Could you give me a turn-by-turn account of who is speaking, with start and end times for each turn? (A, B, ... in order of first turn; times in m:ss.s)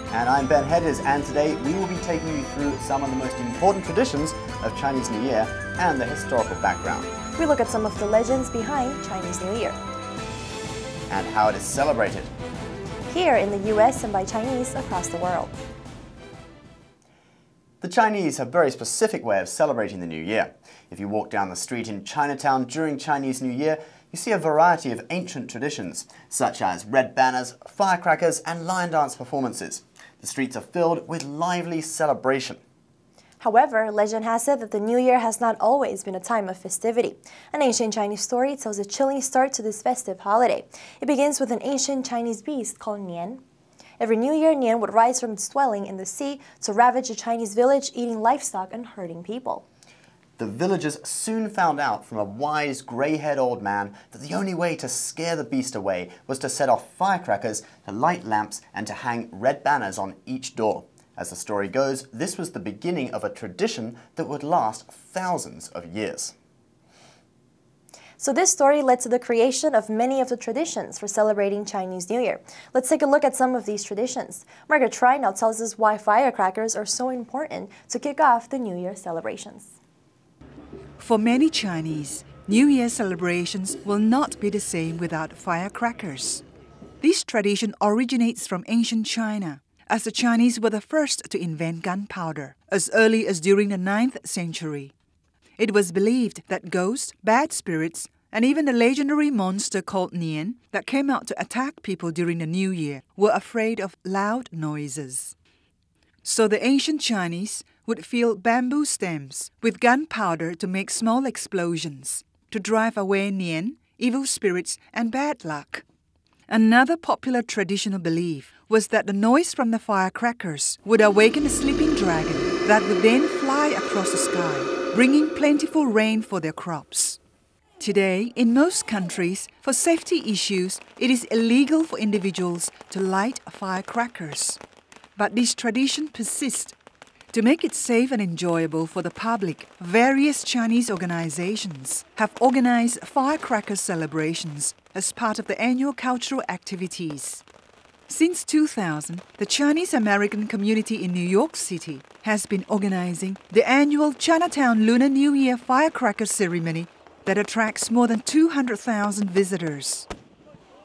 0:00.1-0:07.1 A
0:07.4-0:09.8 B
0:11.1-0:12.3 A
0:13.1-0:15.6 B
0:17.8-0:32.6 A
0:33.4-0:43.4 B
0:44.0-0:49.7 B
0:50.4-1:06.4 A
1:08.2-1:19.7 B
1:21.0-1:26.4 C
1:27.0-1:34.9 C
1:35.6-1:45.4 C
1:46.2-1:55.8 C
1:56.5-2:07.2 C
2:07.8-2:14.6 C
2:15.2-2:16.7 C
2:17.3-2:27.4 C
2:28.1-2:40.1 C